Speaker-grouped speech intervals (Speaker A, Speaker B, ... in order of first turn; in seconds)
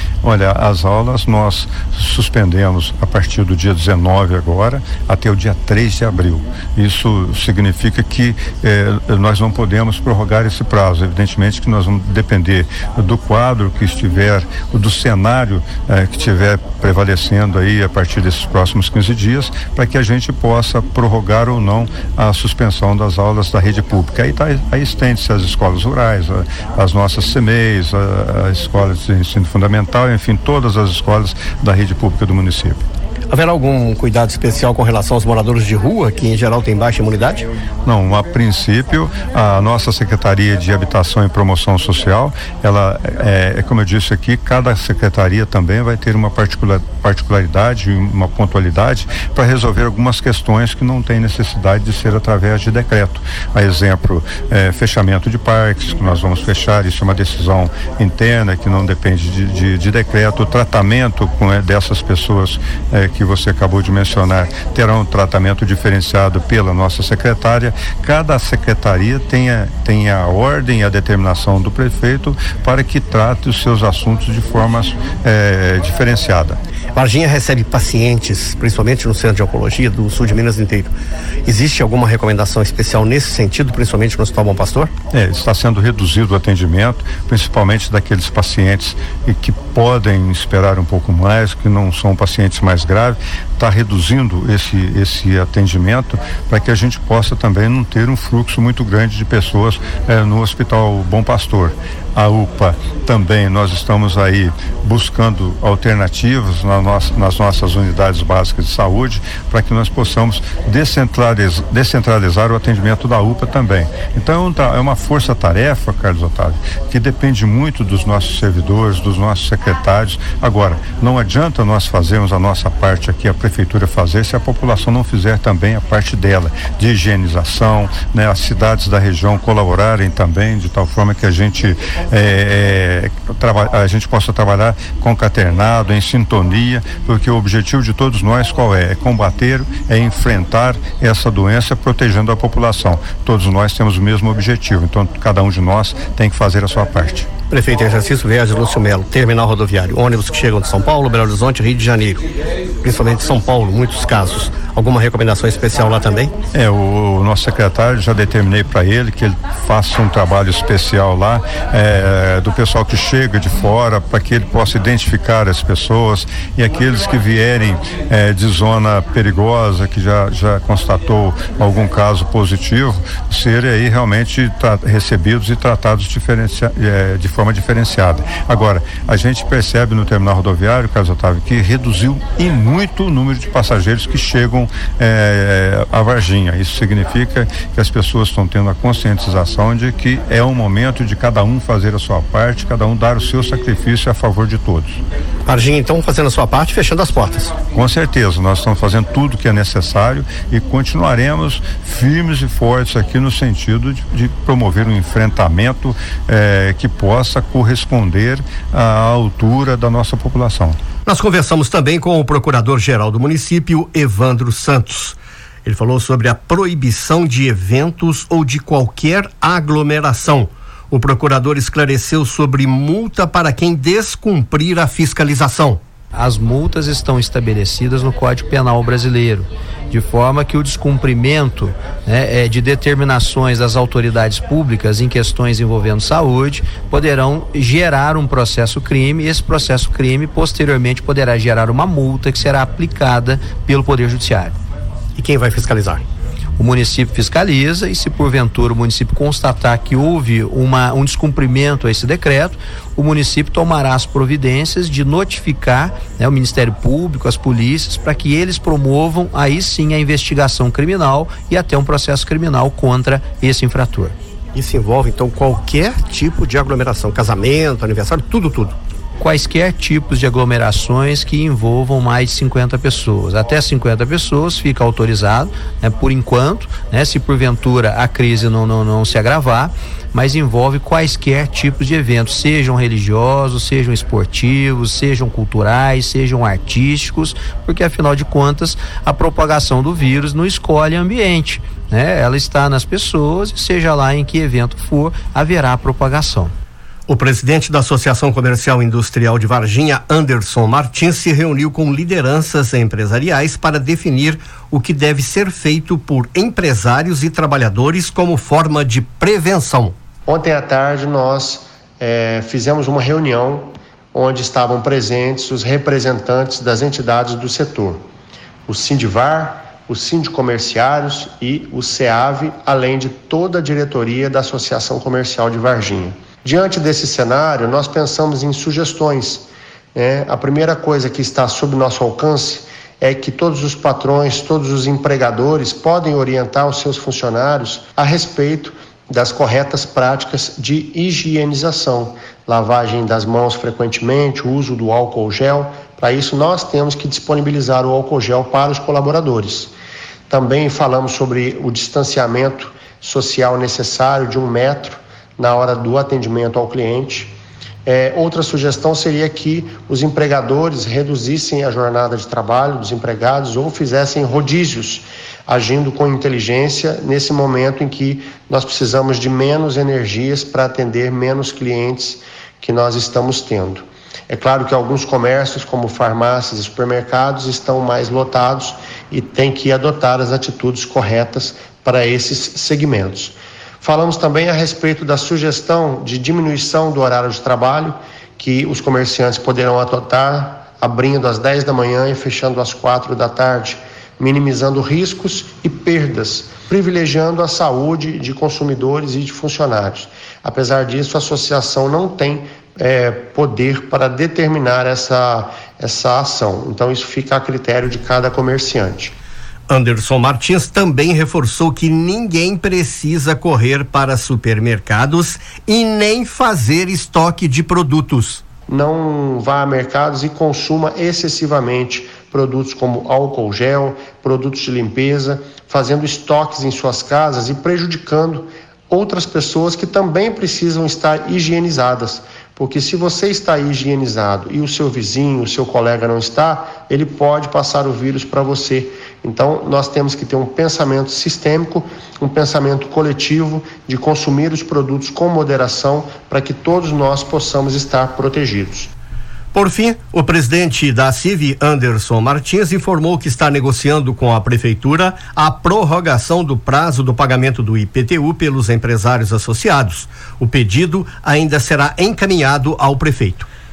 Speaker A: 0.2-32.8, 37.9-76.6, 85.1-147.3, 156.5-195.0, 197.7-210.8
Speaker B: 33.3-37.4, 77.0-80.9, 81.5-84.9, 147.5-152.2, 152.8-156.3, 195.5-197.5, 211.1-225.8, 245.2-246.0, 264.5-268.8, 297.1-309.9, 409.7-418.4, 449.5-463.5
Speaker C: 226.1-244.6, 246.6-264.1, 269.2-296.5
Speaker D: 310.3-318.0, 318.7-349.7, 350.3-357.3, 357.9-409.1, 418.7-448.9